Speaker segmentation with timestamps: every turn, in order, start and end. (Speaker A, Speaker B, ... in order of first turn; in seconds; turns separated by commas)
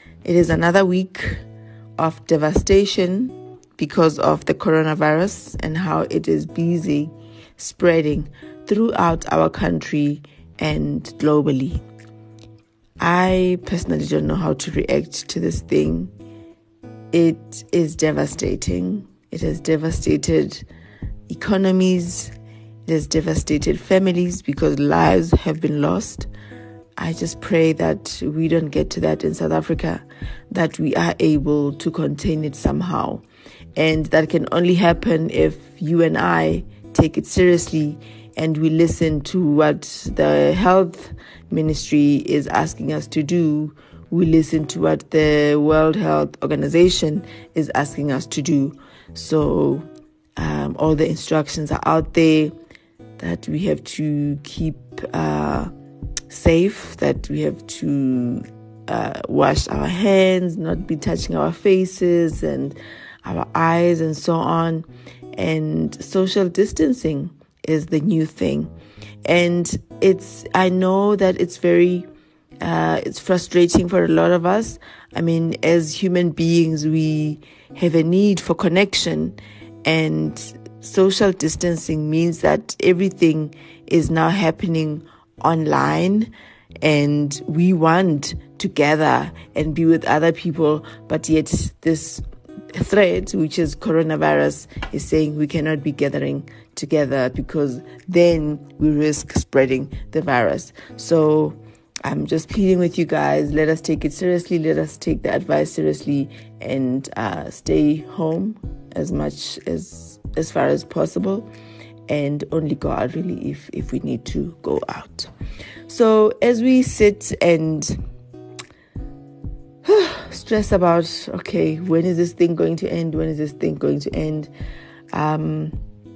Speaker A: 0.2-1.4, Speaker A: 2.0-11.8, Speaker A: 13.0-16.1, Speaker A: 17.1-20.6, Speaker A: 21.3-22.3, Speaker A: 22.9-26.3, Speaker A: 27.0-33.2, Speaker A: 33.8-49.9, Speaker A: 50.4-52.5, Speaker A: 53.2-55.7, Speaker A: 56.3-68.7, Speaker A: 69.2-72.1, Speaker A: 72.6-86.3, Speaker A: 86.8-111.5, Speaker A: 112.1-115.3, Speaker A: 115.9-118.0, Speaker A: 119.8-124.5, Speaker A: 125.1-125.8